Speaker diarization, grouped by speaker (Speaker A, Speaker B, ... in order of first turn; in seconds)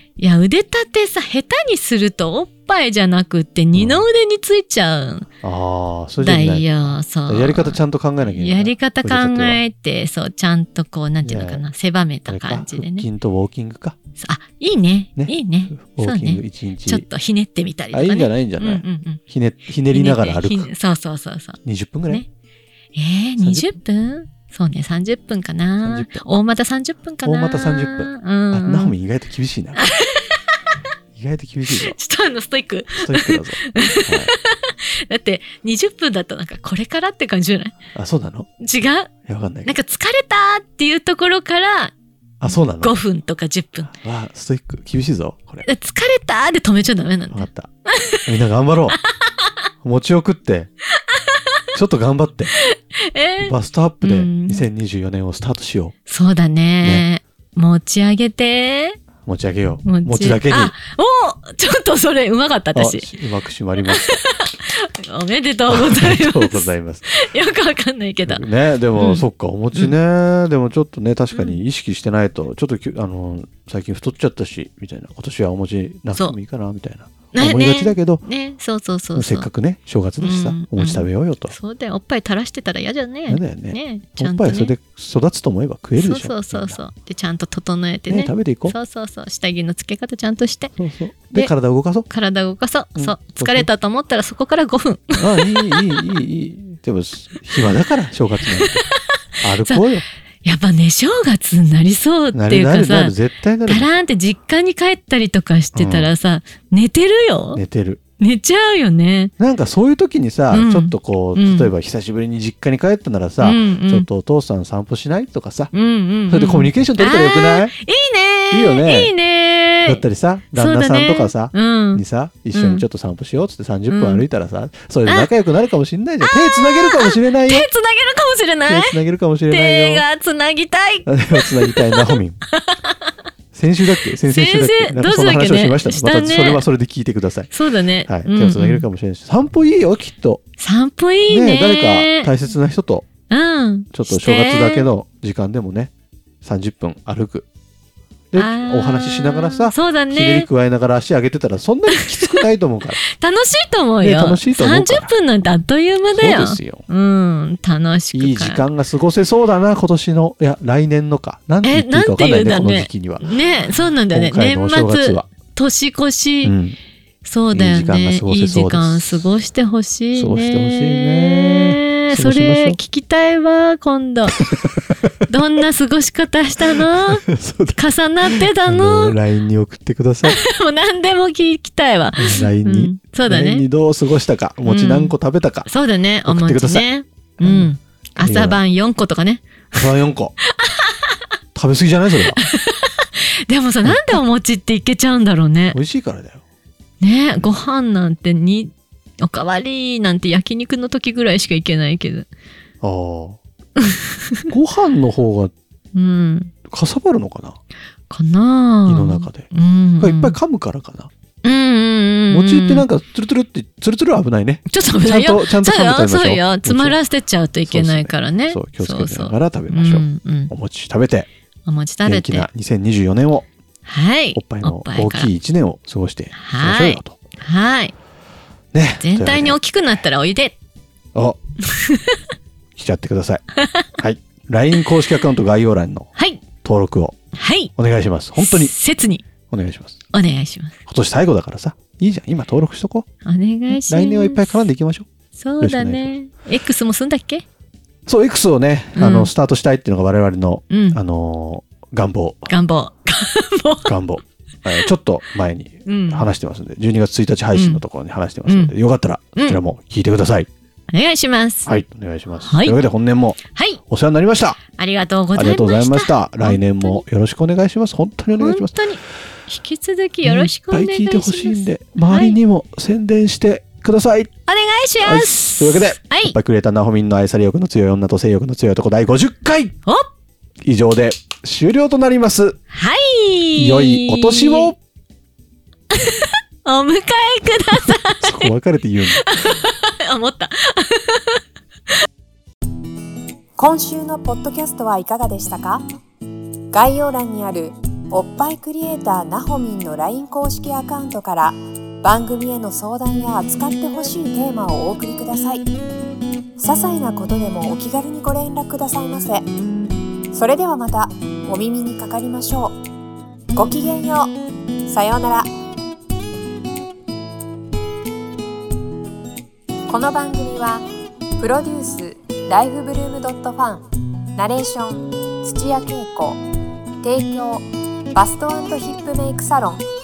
Speaker A: 0.2-5.3, 6.2-13.1, 14.2-19.2, 19.9-22.3, 22.9-28.9, 29.8-30.6, 31.7-37.8, 38.6-39.1, 39.6-41.9, 42.4-43.9, 45.6-48.3, 49.0-49.5, 51.1-51.6, 52.5-54.7, 56.1-59.0, 59.8-63.1, 63.8-69.9, 71.3-71.6, 77.3-79.5, 80.2-84.7, 86.0-90.7, 92.1-95.9, 98.4-99.0, 100.4-103.1, 103.7-107.6, 108.2-109.3, 110.5-111.7, 113.4-114.1, 115.7-120.0, 120.5-122.0, 122.5-122.8, 123.9-124.2, 126.2-129.0, 129.5-133.1, 134.2-136.6, 137.5-138.8, 140.6-142.3, 143.3-144.9, 148.3-150.5, 151.9-152.4, 153.0-158.6, 161.6-166.5, 167.2-174.4, 175.3-177.2, 177.8-179.2, 180.2-183.7, 184.6-189.8, 190.5-191.1, 192.3-195.8, 197.0-202.3, 203.8-204.4, 205.9-206.5, 208.1-210.4, 211.4-212.8, 214.7-220.5, 221.7-222.5, 223.8-225.3, 226.3-227.9, 229.0-230.6, 231.7-232.2, 233.6-233.8, 236.1-236.4, 237.3-237.7, 238.3-239.2, 240.1-240.8, 243.2-244.7, 245.3-247.4, 248.9-249.3, 250.7-251.0, 252.5-254.0, 255.8-256.3, 257.5-257.8, 258.4-258.7, 259.4-259.6, 260.9-261.8, 262.4-262.8, 263.4-263.8, 264.8-267.0, 268.4-272.4, 274.5-276.4, 282.7-284.7, 285.9-288.5, 289.0-291.4
Speaker B: 3.7-4.0, 5.4-9.6, 11.2-11.6, 12.3-14.0, 15.2-17.1, 17.9-20.7, 21.6-22.2, 23.4-23.7, 25.8-26.2, 27.2-29.8, 31.1-31.9, 33.0-34.3, 37.9-38.5, 39.3-39.7, 42.4-42.9, 43.9-45.6, 47.3-47.7, 48.2-49.0, 49.8-50.7, 51.7-52.5, 53.4-55.9, 59.2-60.7, 62.7-64.2, 65.7-67.1, 68.2-78.2, 79.1-81.5, 83.3-86.8, 88.1-88.8, 90.8-92.1, 93.0-93.7, 95.2-98.8, 99.4-100.0, 102.3-103.9, 105.7-106.1, 107.5-108.0, 109.4-115.7, 116.3-117.7, 118.5-119.1, 119.8-127.7, 128.7-130.0, 131.1-132.4, 133.5-137.5, 138.1-140.4, 141.3-143.1, 143.9-145.9, 146.4-147.5, 148.3-153.0, 154.0-155.1, 156.1-156.8, 158.1-163.3, 164.0-165.3, 166.4-166.8, 167.5-169.2, 170.1-172.8, 174.4-174.8, 176.7-180.3, 182.2-185.7, 186.2-186.8, 187.4-188.6, 189.7-190.3, 191.5-192.4, 193.8-194.2, 195.7-196.4, 202.8-203.4, 204.5-205.5, 206.7-207.6, 208.8-211.1, 212.3-217.0, 217.7-221.3, 222.0-223.4, 224.3-227.2, 228.7-229.6, 232.8-236.1, 236.6-237.1, 237.8-238.7, 239.5-240.0, 240.9-243.1, 243.7-245.1, 245.6-246.1, 248.1-252.5, 253.8-260.5, 261.6-264.6, 265.3-268.7, 270.2-274.3, 275.0-279.7, 280.6-282.6, 283.6-284.8, 288.2-289.2
Speaker C: 293.6-295.8, 296.7-305.7, 306.6-309.5, 310.3-312.7, 313.5-315.5, 319.9-320.8, 321.4-326.4, 327.0-329.8